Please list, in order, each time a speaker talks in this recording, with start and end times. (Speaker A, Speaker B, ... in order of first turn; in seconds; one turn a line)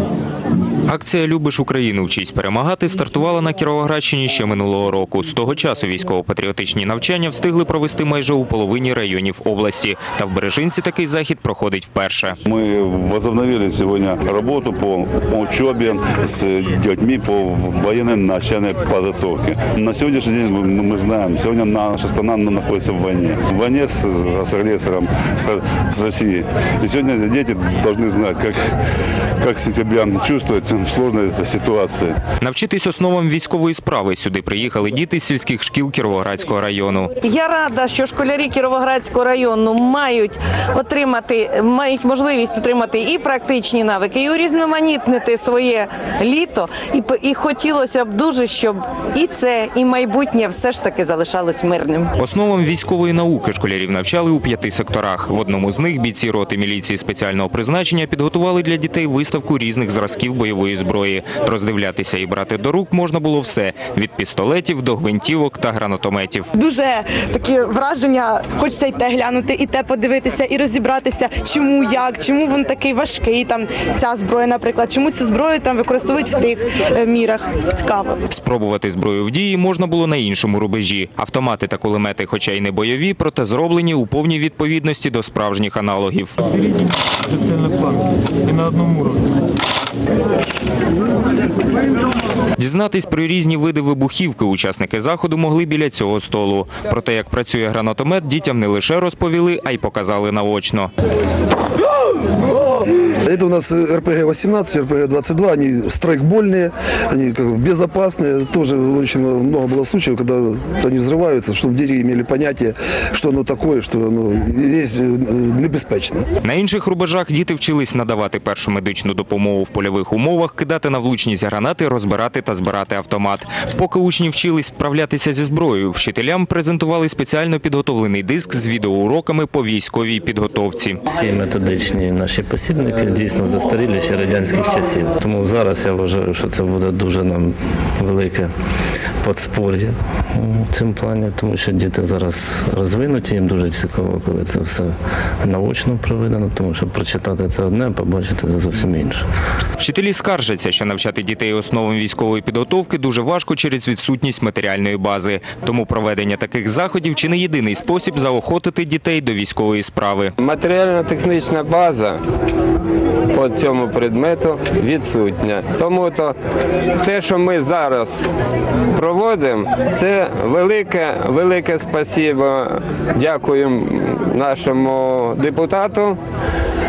Speaker A: 0.9-12.4
Speaker B: 12.5-28.6
Speaker B: 29.4-32.2
Speaker A: 32.4-37.1
Speaker C: 37.2-52.1
Speaker A: 52.2-66.5
Speaker D: 66.5-78.2
Speaker A: 78.3-86.4
Speaker E: 86.5-89.3
Speaker A: 92.6-100.9
Speaker F: 103.2-116.2
Speaker A: 116.4-131.0
Speaker G: 131.1-138.5
Speaker G: 139.2-149.2
Speaker A: 149.8-160.3
Speaker H: 160.4-162.2
Speaker H: 163.3-166.4
Speaker H: 167.0-168.3
Speaker H: 168.9-176.2